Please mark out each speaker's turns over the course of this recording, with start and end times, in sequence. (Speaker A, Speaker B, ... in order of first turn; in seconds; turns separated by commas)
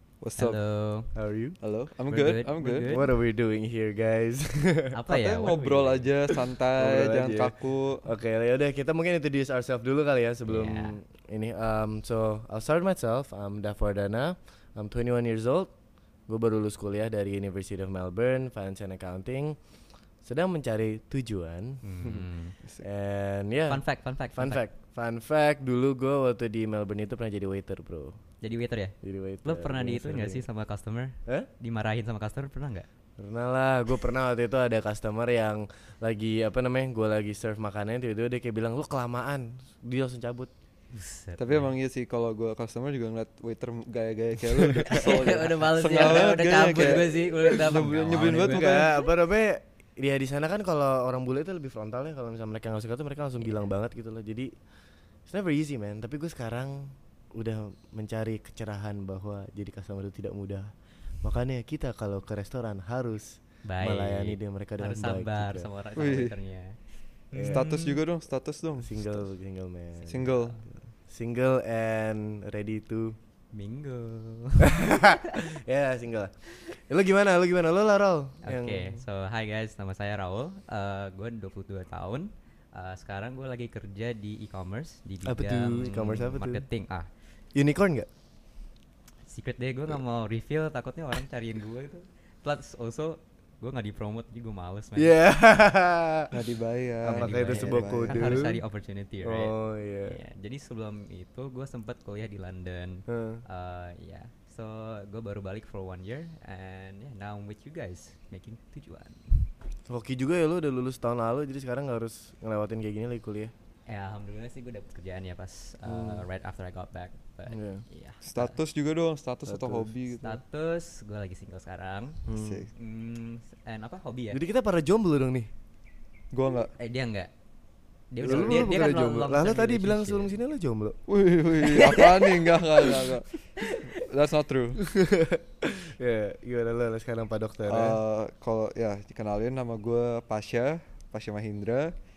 Speaker A: 0.2-0.6, Speaker B: 0.4-1.1, Speaker C: 1.1-1.6, Speaker A: 1.6-3.1, Speaker B: 2.1-3.0, Speaker C: 2.9-5.0, Speaker B: 4.9-6.1, Speaker A: 5.1-8.1, Speaker C: 6.8-15.7, Speaker B: 10.5-11.0, Speaker C: 16.3-19.6, Speaker C: 20.2-22.2, Speaker B: 21.9-22.6, Speaker C: 22.8-28.2, Speaker B: 23.7-24.6, Speaker B: 28.4-32.9, Speaker C: 29.0-30.4, Speaker C: 33.2-40.5, Speaker B: 40.9-41.7, Speaker A: 41.4-48.9, Speaker B: 44.9-48.8, Speaker C: 48.1-54.5, Speaker C: 55.3-60.7, Speaker C: 61.2-65.7, Speaker B: 63.6-66.8, Speaker A: 66.0-66.4, Speaker B: 67.3-68.0, Speaker C: 67.3-67.6, Speaker A: 67.5-69.2, Speaker C: 68.8-73.2, Speaker B: 70.0-70.6, Speaker A: 70.1-70.6, Speaker B: 73.5-74.8, Speaker C: 74.6-79.0, Speaker B: 78.4-87.1, Speaker C: 85.2-86.6, Speaker C: 87.5-88.1, Speaker B: 89.3-95.1, Speaker C: 95.0-96.3, Speaker A: 96.3-98.4, Speaker C: 97.0-98.6, Speaker B: 97.1-99.5, Speaker C: 99.2-100.2, Speaker B: 100.0-109.2, Speaker C: 103.1-103.4, Speaker C: 109.9-113.5, Speaker B: 113.9-118.6, Speaker C: 115.8-116.2, Speaker C: 117.5-117.8, Speaker A: 118.2-120.4, Speaker C: 119.5-119.9, Speaker B: 120.2-122.2, Speaker C: 122.3-122.7, Speaker A: 122.4-122.7, Speaker B: 122.7-124.4, Speaker C: 124.3-125.5, Speaker A: 126.3-126.7, Speaker B: 126.8-127.3, Speaker B: 128.1-130.4, Speaker C: 128.2-131.0, Speaker A: 128.2-128.9, Speaker A: 131.1-133.3, Speaker B: 131.7-133.1, Speaker A: 133.9-134.8, Speaker C: 134.8-138.0, Speaker A: 137.7-141.9